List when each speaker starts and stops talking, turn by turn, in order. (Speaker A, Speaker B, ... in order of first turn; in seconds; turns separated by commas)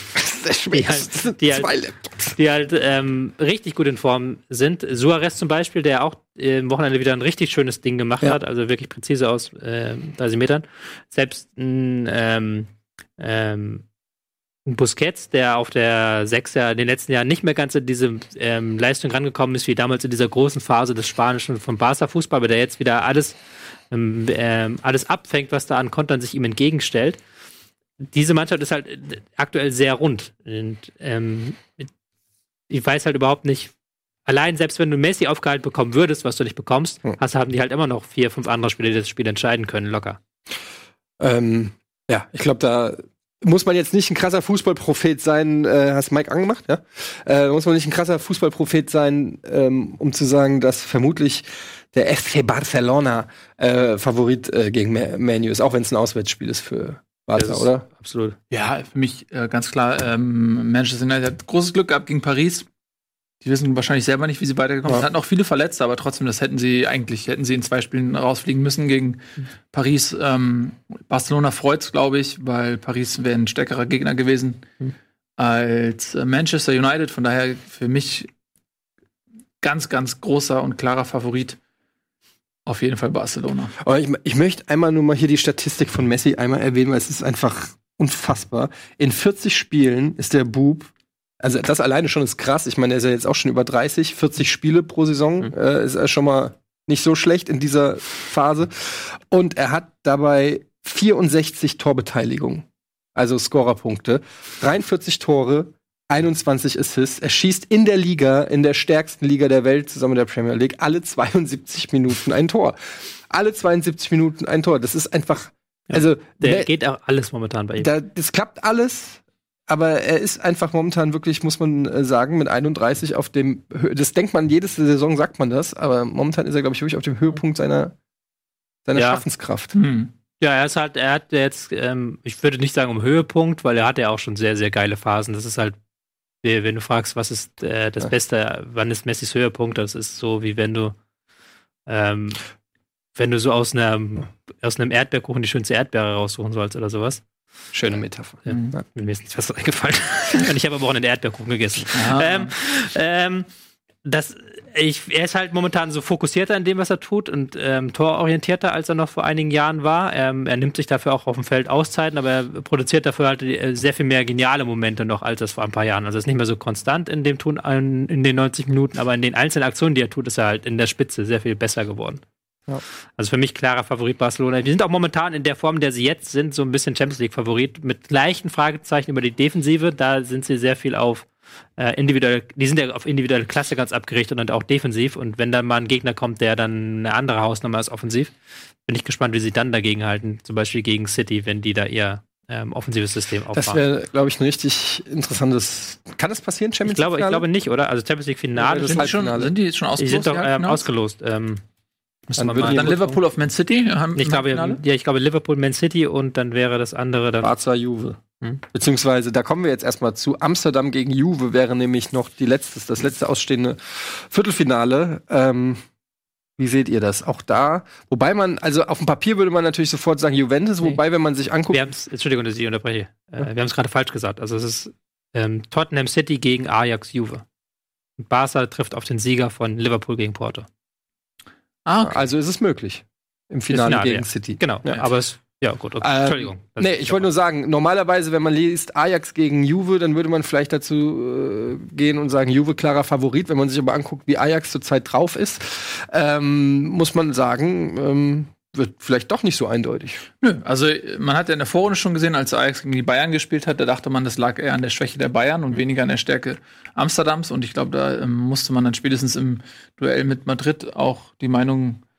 Speaker A: 0.1-2.4, Speaker B: 0.7-1.7, Speaker B: 2.4-13.8, Speaker B: 14.7-23.4, Speaker B: 23.9-27.2, Speaker B: 28.0-31.9, Speaker B: 32.7-33.7, Speaker B: 34.2-40.2, Speaker A: 41.2-57.9, Speaker B: 57.4-58.4, Speaker C: 58.5-62.7, Speaker C: 63.4-74.7, Speaker C: 75.4-78.3, Speaker C: 79.6-81.6, Speaker C: 82.7-83.8, Speaker A: 83.8-112.8, Speaker A: 113.3-116.7, Speaker B: 115.9-117.9, Speaker A: 117.8-128.0, Speaker A: 128.8-129.7, Speaker B: 128.9-129.2, Speaker C: 129.7-130.1, Speaker B: 130.4-135.8, Speaker B: 136.4-141.0, Speaker B: 141.9-142.4, Speaker B: 143.2-147.2, Speaker A: 147.7-148.8, Speaker B: 148.5-153.5, Speaker C: 148.5-148.7, Speaker C: 151.9-152.5, Speaker B: 154.0-172.2, Speaker B: 173.2-188.3, Speaker B: 188.9-193.8, Speaker A: 193.5-197.5, Speaker B: 196.9-199.1, Speaker A: 198.6-199.5, Speaker C: 198.8-200.8, Speaker B: 200.0-201.6, Speaker B: 202.3-203.2, Speaker A: 202.4-202.9, Speaker C: 202.6-204.8, Speaker B: 204.2-207.5, Speaker A: 207.4-208.2, Speaker A: 208.7-215.8, Speaker A: 216.6-221.8, Speaker B: 221.7-227.4, Speaker B: 228.2-230.7, Speaker C: 231.9-232.2, Speaker A: 232.0-235.1, Speaker B: 233.7-237.3, Speaker A: 236.0-250.2, Speaker C: 250.4-262.0